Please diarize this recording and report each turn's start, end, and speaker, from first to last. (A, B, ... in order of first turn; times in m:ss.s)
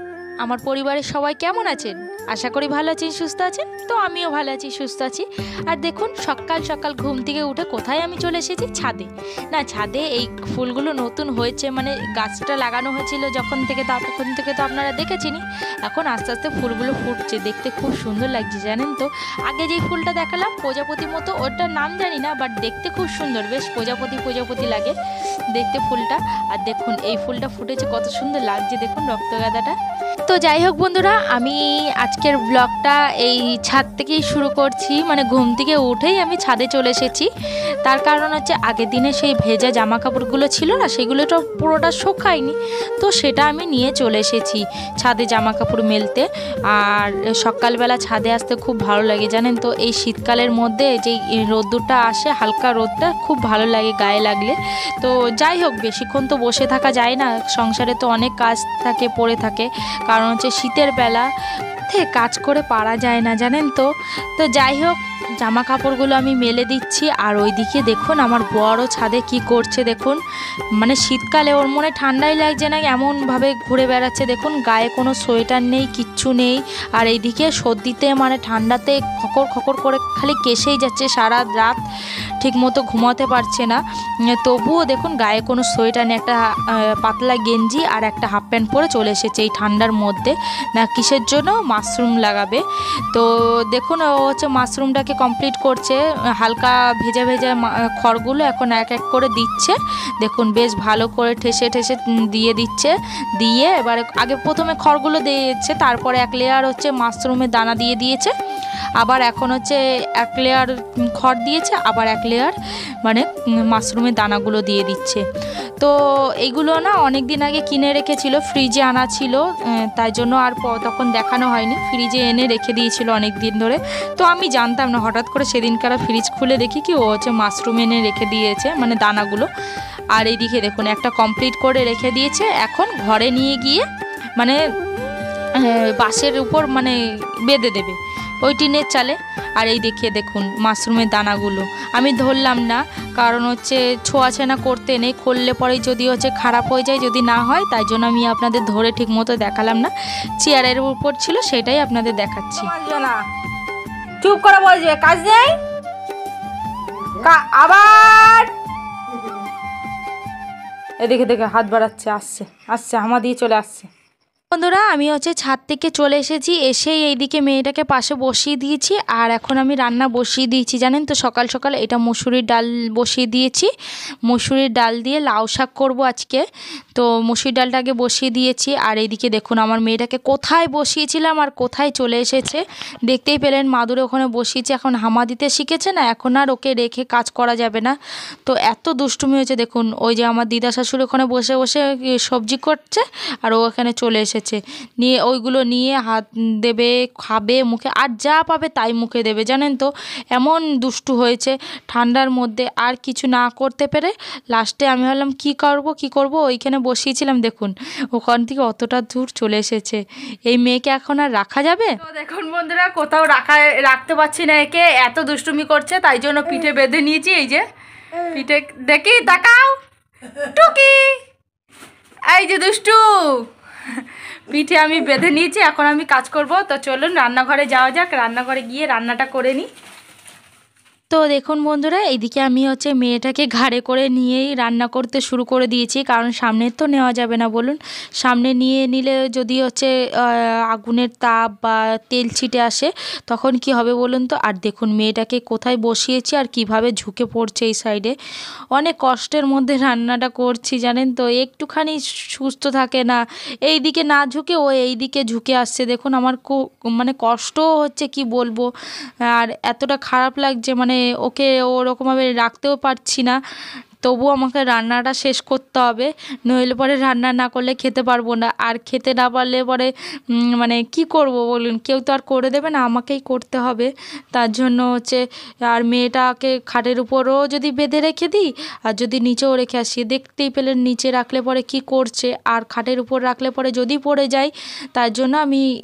0:00.4-0:25.0 A
0:25.5-0:29.8 A
0:30.3-0:37.3 A
0:37.8-1:01.3 A
1:01.9-1:10.2 A
1:10.8-1:21.8 A
1:22.4-1:23.8 A
1:24.3-1:48.3 A
1:49.0-1:55.2 A
1:55.8-2:09.5 A
2:10.1-2:13.9 A
2:15.6-2:32.7 A
2:32.6-2:33.2 B
2:34.2-2:35.5 B
2:37.2-2:38.5 A
2:41.1-2:42.7 A
2:42.6-2:43.8 B
2:43.5-2:43.9 A
2:44.5-2:53.7 A
2:54.3-2:56.4 A
2:57.0-3:32.3 A
3:32.2-3:33.8 B
3:32.9-3:37.6 A
3:38.3-3:39.8 A
3:40.5-3:41.2 A
3:40.6-3:40.8 B
3:42.3-3:43.0 A
3:44.5-3:45.5 A
3:44.5-3:49.7 B
3:51.1-4:08.2 A
4:08.7-4:18.7 A
4:19.3-4:23.4 A
4:24.0-4:45.6 A